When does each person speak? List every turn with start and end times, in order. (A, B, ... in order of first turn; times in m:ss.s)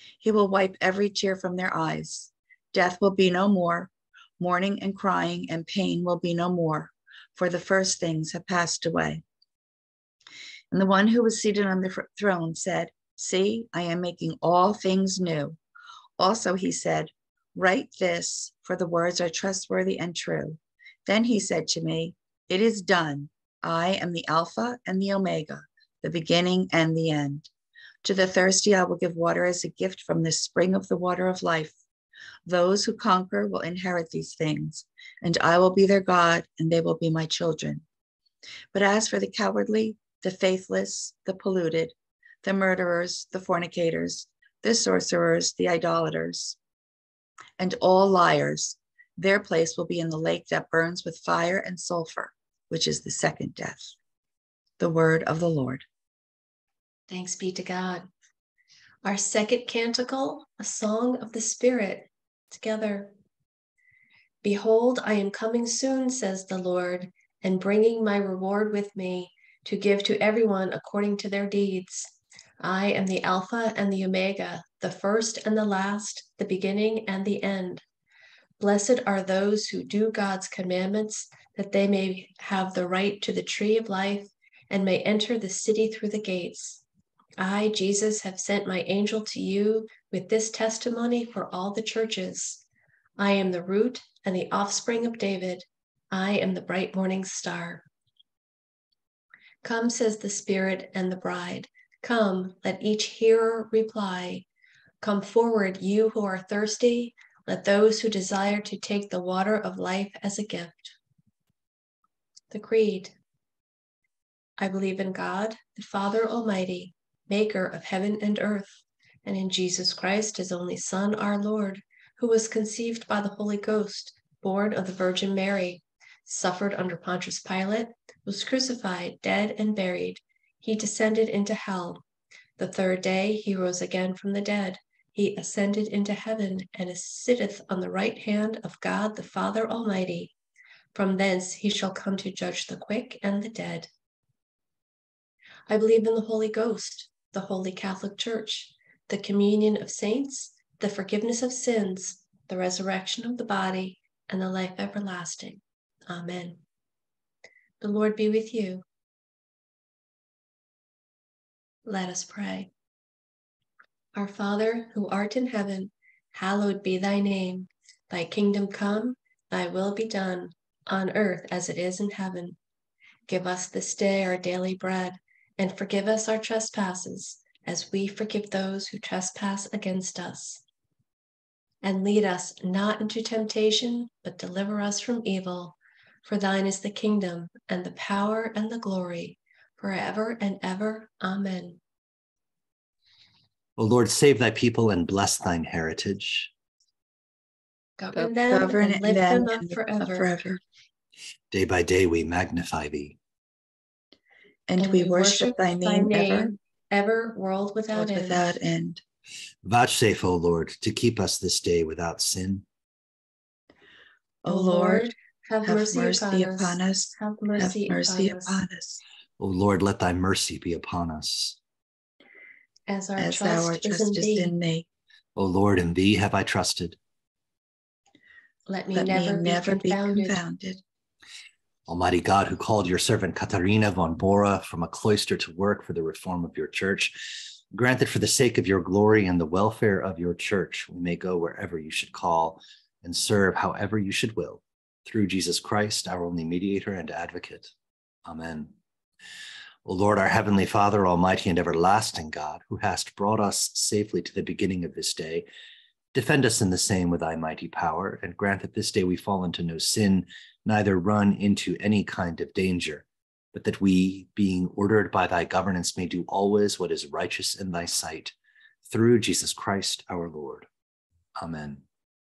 0:00.2-0:09.2 A
0:10.7-0:15.6 A
0:16.2-0:27.5 A
0:28.0-0:31.7 A
0:32.4-0:37.8 A
0:38.7-0:46.6 A
0:47.6-0:53.9 A
0:54.8-0:55.8 A
0:57.1-0:58.0 B
0:59.0-1:03.1 B
1:04.4-1:17.8 B
1:18.6-1:26.8 B
1:27.4-1:32.6 B
1:33.2-1:37.8 B
1:39.6-1:44.5 B
1:45.0-1:51.0 B
1:52.5-1:53.1 B
1:54.6-2:12.0 B
2:12.6-2:20.3 B
2:20.9-2:23.9 B
2:25.7-2:36.6 B
2:37.8-2:38.8 B
2:41.8-2:42.7 B
2:44.1-2:52.6 B
2:53.3-3:00.6 B
3:01.8-3:11.8 B
3:13.8-3:16.5 C
3:18.0-3:20.3 B
3:18.5-3:20.6 A
3:21.5-3:23.2 C
3:24.7-3:26.5 A
3:24.8-3:28.5 B
3:27.9-3:29.0 A
3:29.6-3:32.6 C
3:34.4-3:35.1 A
3:34.5-3:38.6 B
3:35.6-3:39.0 A
3:39.4-3:41.6 C
3:42.9-3:44.5 B
3:43.2-3:44.8 A
3:45.4-3:47.0 C
3:48.7-3:50.4 B
3:48.9-3:50.8 A
3:51.9-3:57.2 C
3:57.7-4:07.7 C
4:08.2-4:08.7 C
4:09.8-4:15.4 C
4:16.1-4:28.3 C
4:28.9-4:30.7 C
4:31.4-4:31.8 C